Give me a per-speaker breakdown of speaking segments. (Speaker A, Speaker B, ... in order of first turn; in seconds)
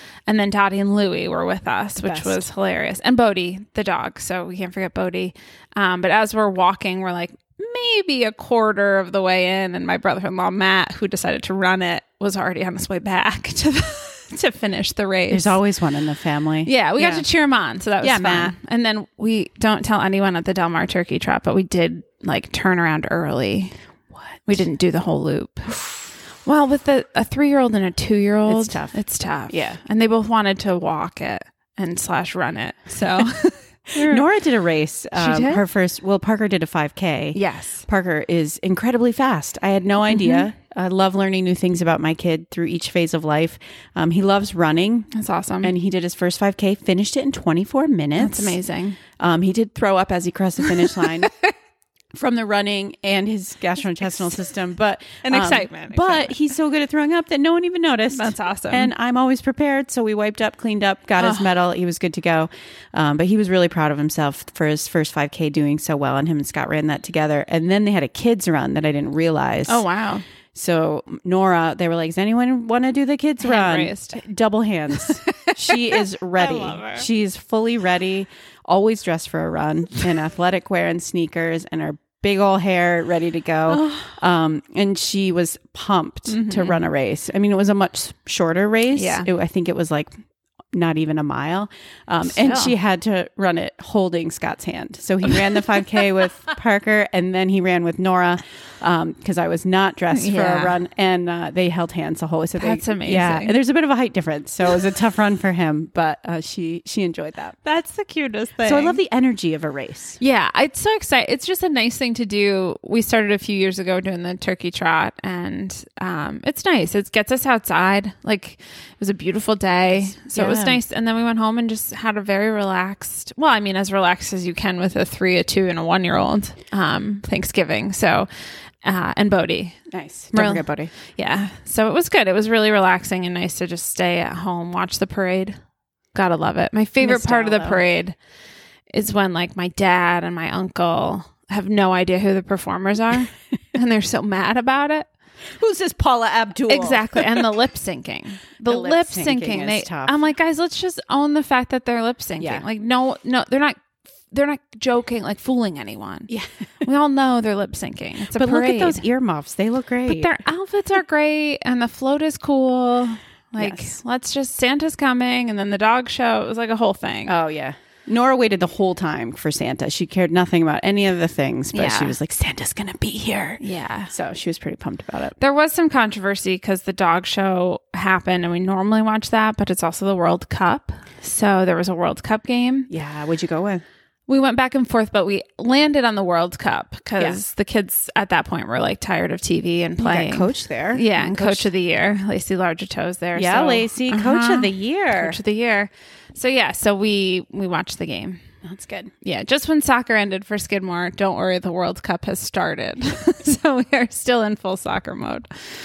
Speaker A: 0.3-15.6, 16.7-23.8, 24.5-25.8, 26.4-34.2, 35.2-35.6, 37.3-37.9, 40.1-40.4, 45.1-45.7, 48.2-49.0, 50.6-51.5, 55.2-56.4, 58.1-58.9, 61.2-61.5, 69.7-70.2, 73.4-74.2, 75.3-77.0, 83.7-84.1, 86.3-86.8, 89.0-89.3, 92.2-92.7, 100.1-100.8, 102.6-103.5, 107.6-109.0, 110.2-128.3, 128.8-129.8, 130.3-135.6, 136.1-138.2, 138.9-145.1, 146.7-153.8, 154.3-156.3, 156.8-159.0, 160.1-167.3, 171.7-172.2, 173.6-174.1, 175.4-182.9, 184.3-198.4, 199.2-205.5
Speaker B: 2.0-2.4, 15.3-17.2, 18.0-18.5, 24.1-24.6, 28.5-29.0, 29.5-29.8, 34.0-45.1, 45.6-48.6, 49.2-51.3, 52.1-69.8, 70.5-90.1, 90.7-107.6, 108.6-110.2, 120.1-120.8, 129.9-130.9, 137.0-137.8, 145.6-147.5, 148.7-150.2, 152.4-152.7, 156.3-156.9, 158.3-160.4, 163.6-163.9, 167.3-175.4, 182.9-183.8, 190.0-191.7, 193.4-195.4, 198.6-199.1